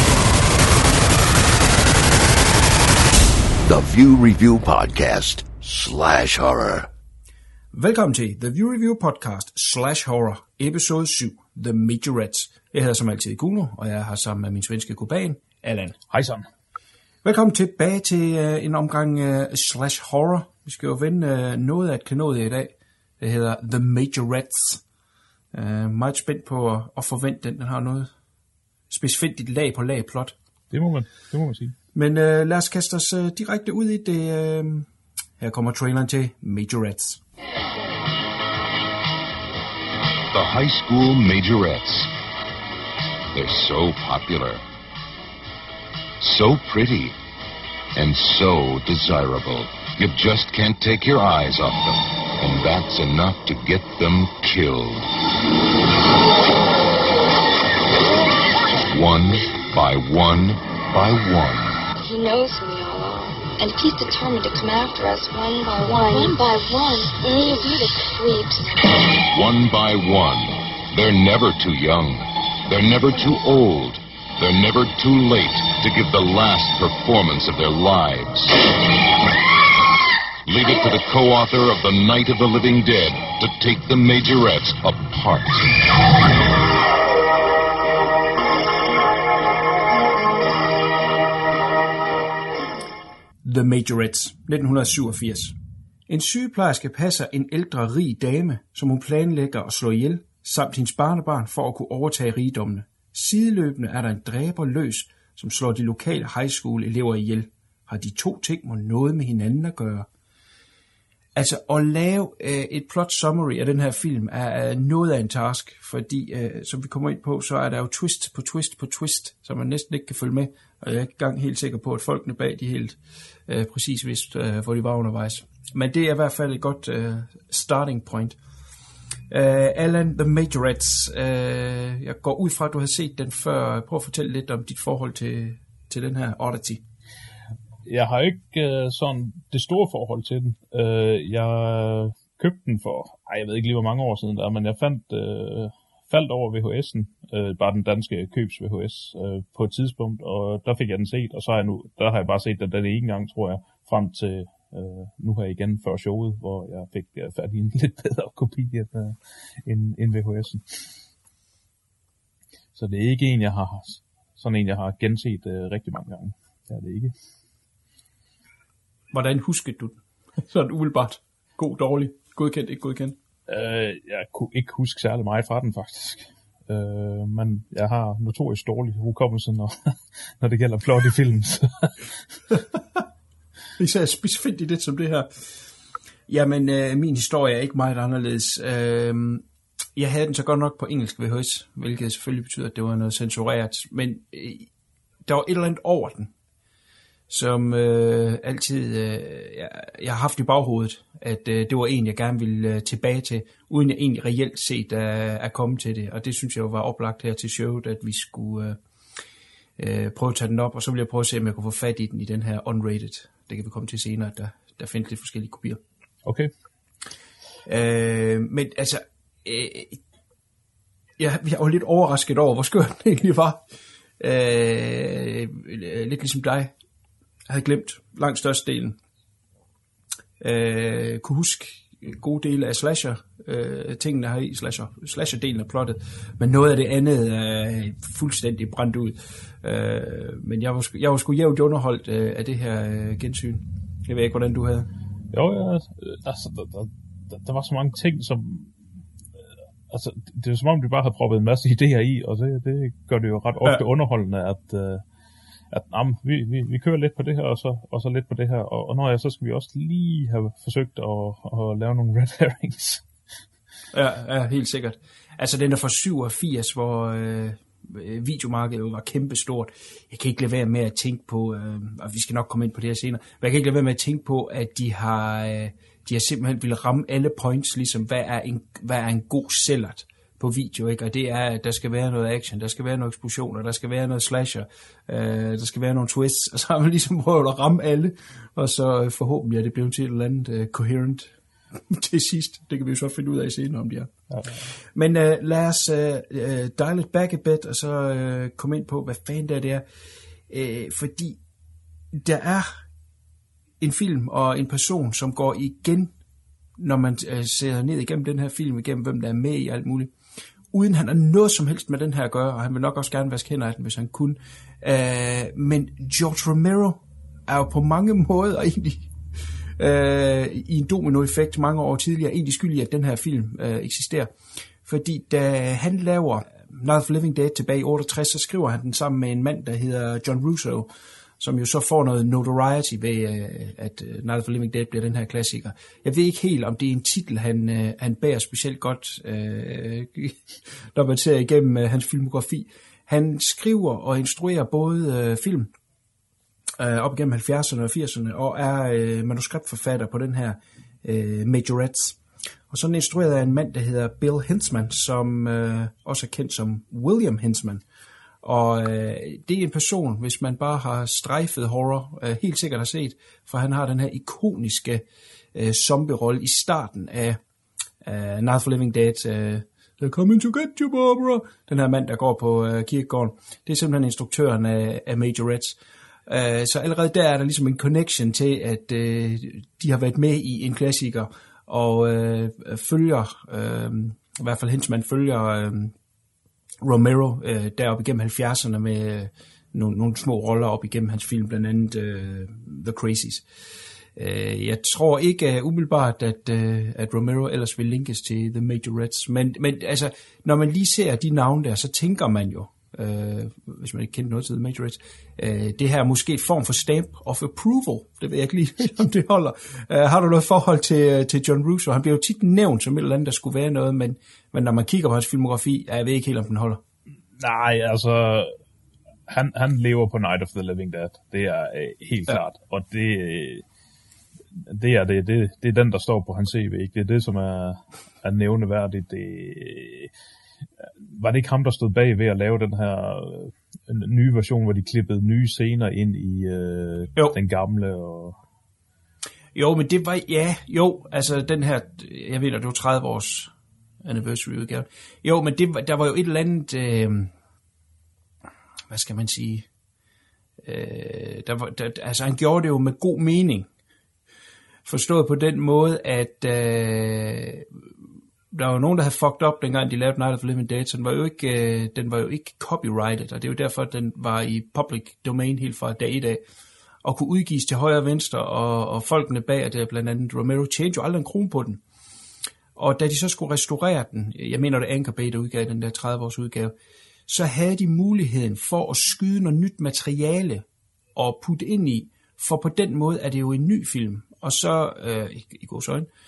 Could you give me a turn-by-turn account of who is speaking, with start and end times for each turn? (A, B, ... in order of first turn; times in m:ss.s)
0:03.6-0:06.9 A
0:07.7-0:16.0 B
0:16.1-0:16.5 C
0:17.2-0:24.8 B
0:25.5-0:28.1 B
0:28.9-0:30.3 B
0:30.7-0:31.8 C
0:31.9-0:34.9 B
0:35.4-0:37.2 B
0:40.3-0:42.1 D
0:43.3-0:44.6 D
0:46.2-0:47.2 D
0:48.0-0:55.1 D
0:58.9-1:01.8 D
1:02.0-1:08.7 E
1:09.3-1:18.6 D
1:20.5-1:25.7 D
1:33.4-1:35.5 B
1:36.1-1:50.1 B
1:51.4-2:08.4 B
2:09.3-2:16.8 B
2:17.9-2:40.9 C
2:42.8-2:47.1 C
2:49.1-2:53.2 B
2:53.5-3:02.1 C
3:02.5-3:03.0 B
3:03.8-3:05.5 B
3:06.3-3:09.4 B
3:10.0-3:14.7 B
3:15.3-3:16.3 B
3:17.3-3:28.8 B
3:29.8-3:35.8 B
3:36.2-3:36.5 C
3:37.7-3:40.0 B
3:41.2-3:43.6 B
3:44.2-3:46.7 B
3:47.5-3:49.0 B
3:50.4-4:04.9 B
4:05.3-4:08.7 C
4:09.9-4:15.0 C
4:15.7-4:23.0 C
4:23.9-4:54.1 B
4:54.9-4:59.8 B
5:00.5-5:01.4 B
5:02.1-5:02.8 B
5:03.8-5:06.1 B
5:06.8-5:10.1 B
5:10.7-5:19.1 B
5:19.8-5:24.3 B
5:24.8-5:45.7 B
5:46.8-5:52.2 B
5:52.7-5:57.8 B
5:58.4-6:07.4 B
6:08.0-6:25.9 B
6:26.8-6:33.4 B
6:34.2-6:56.8 B
6:57.4-6:58.5 C
6:59.3-7:03.6 C
7:04.5-7:10.1 C
7:10.8-7:18.4 C
7:19.6-7:23.5 B
7:24.0-7:27.3 B
7:28.9-7:29.7 B
7:30.6-7:33.7 B
7:34.8-7:37.7 B
7:38.5-7:46.4 B
7:47.0-7:51.8 B
7:52.8-7:56.7 B
7:57.3-8:00.6 B
8:01.2-8:06.1 B